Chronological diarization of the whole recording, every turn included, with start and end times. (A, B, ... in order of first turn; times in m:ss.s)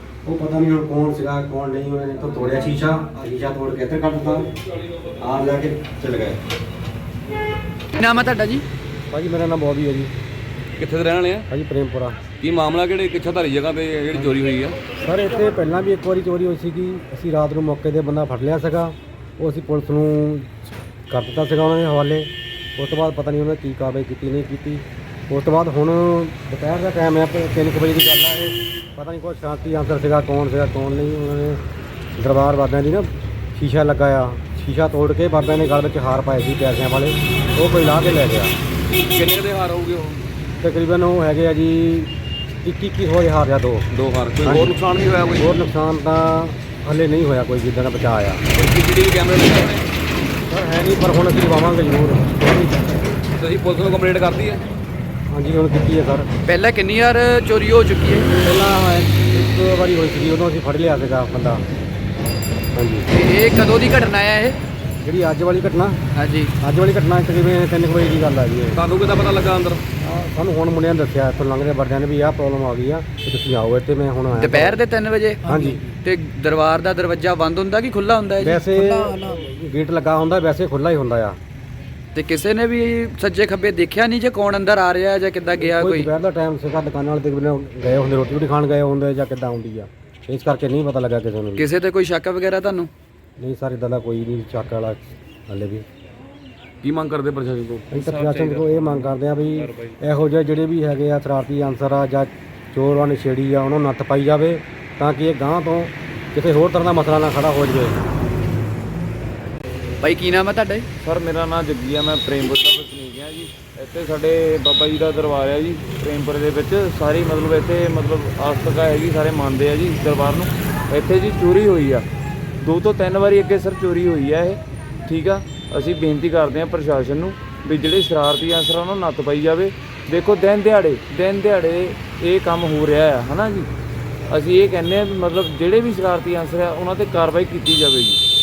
0:00.2-0:04.5 A
0:05.2-0:06.4 A
0:08.0-0:08.6 B
0:09.1-0:10.1 A
0:10.8-0:11.5 C
0:11.5-0:12.2 A
0:12.4-0:14.8 C
0:15.0-0:20.5 A
0:21.1-0:31.6 A
0:32.2-0:38.6 A
0:39.0-0:40.2 C
0:40.6-0:43.9 A
0:43.9-0:45.5 C
0:44.4-0:44.7 A
0:45.4-0:48.4 A
0:48.5-0:49.9 C
0:50.5-0:53.0 A
0:53.4-0:54.6 C
0:55.3-0:56.3 A
0:56.4-0:58.3 B
0:58.4-1:01.6 A
1:02.8-1:03.1 A
1:03.1-1:04.6 B
1:05.0-1:06.0 A
1:06.2-1:06.5 B
1:06.6-1:08.8 A
1:08.7-1:09.8 C
1:10.0-1:14.8 A
1:14.4-1:19.3 B
1:15.5-1:15.8 A
1:18.4-1:21.4 A
1:22.2-1:26.1 B
1:25.6-1:31.7 A
1:31.6-1:32.9 B
1:33.4-1:35.8 A
1:36.8-1:37.9 C
1:37.9-1:48.0 A
1:38.0-1:40.0 D
1:50.0-1:50.9 B
1:51.0-2:02.1 D
2:02.6-2:13.7 D
2:14.3-2:18.2 D